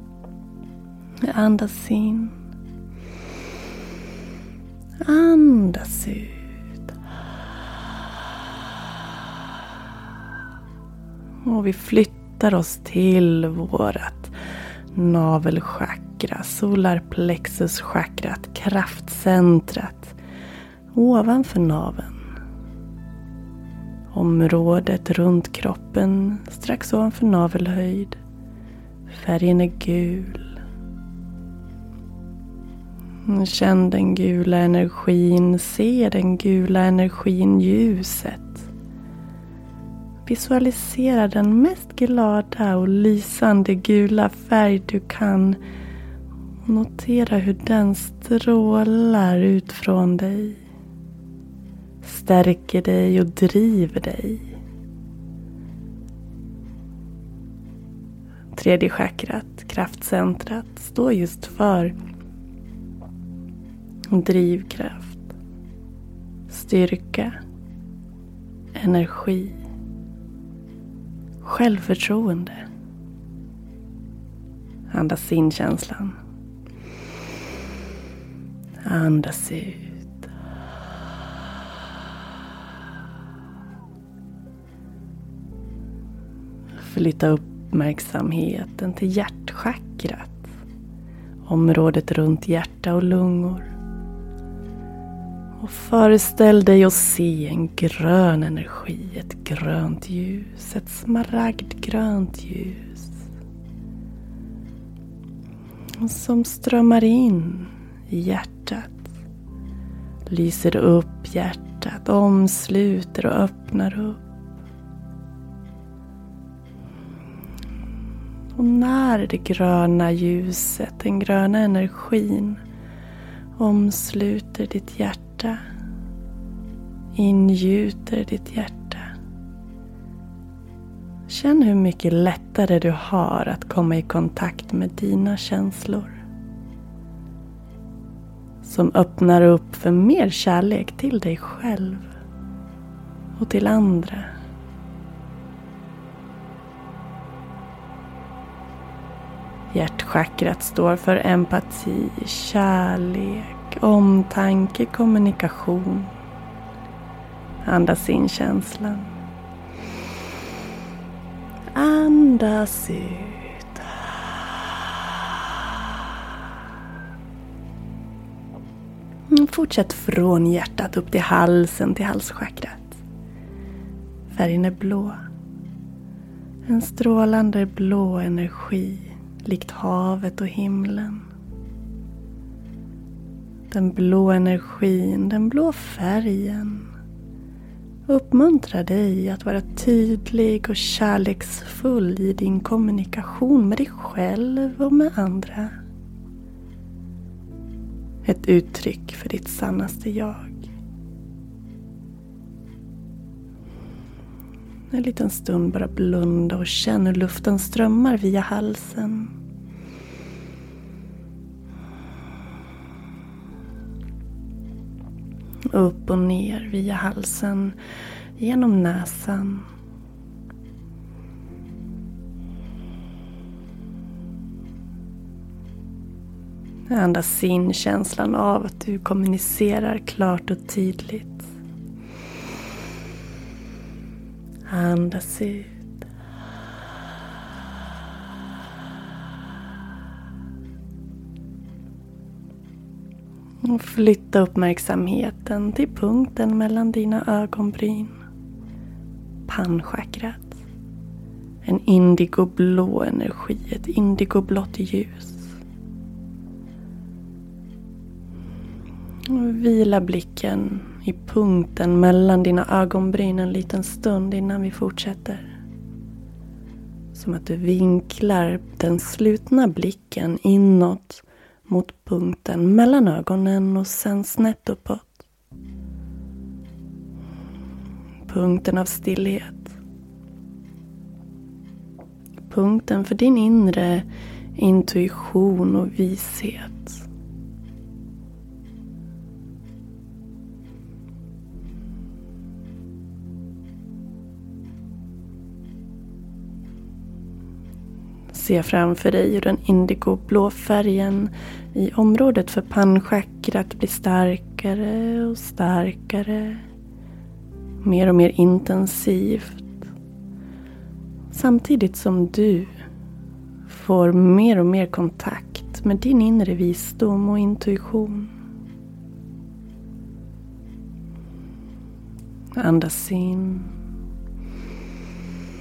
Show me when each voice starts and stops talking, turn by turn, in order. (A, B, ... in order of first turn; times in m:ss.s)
0:01.2-0:02.3 A
0:05.0-0:06.4 A
0:11.4-0:14.3 A
0:14.9-0:20.2 A
0:20.9-0:22.2 A
0:24.1-0:28.2 A
0:29.1-0:30.6 A
0:33.2-0:38.7 A
0:40.2-0:45.6 A
0:46.6-0:50.6 A
0:52.0-0:54.5 A
0:58.5-1:01.9 A
1:04.1-1:05.2 A
1:06.5-1:07.4 A
1:08.7-1:09.6 A
1:11.4-1:12.6 A
1:14.9-1:16.2 A
1:18.8-1:20.0 A
1:26.8-1:30.5 A
1:31.5-1:33.7 A
1:35.6-1:43.1 A
1:46.0-1:49.0 A
1:50.3-1:54.2 A
1:58.6-2:02.6 A
2:03.6-2:05.6 A
2:07.2-2:09.1 A
2:11.3-2:16.2 A
2:18.6-2:22.0 A
2:23.4-2:24.3 A
2:29.7-2:36.1 A
2:37.6-2:39.1 A
2:41.7-2:43.8 A
2:49.3-2:53.0 A
2:54.3-2:55.2 A
2:56.6-3:01.2 A
3:03.7-3:06.9 A
3:08.1-3:15.7 A
3:18.2-3:20.6 A
3:24.9-3:29.3 A
3:35.7-3:37.8 A
3:38.4-3:39.6 A
3:46.9-3:51.5 A
3:54.7-3:55.8 A
4:03.6-4:08.1 A
4:09.5-4:10.5 A
4:11.6-4:15.5 A
4:19.3-4:25.5 A
4:27.1-4:35.2 A
4:38.3-4:39.7 A
4:42.5-4:47.0 A
4:58.3-5:06.6 A
5:07.8-5:09.8 A
5:11.3-5:12.7 A
5:13.7-5:18.3 A
5:22.6-5:23.7 A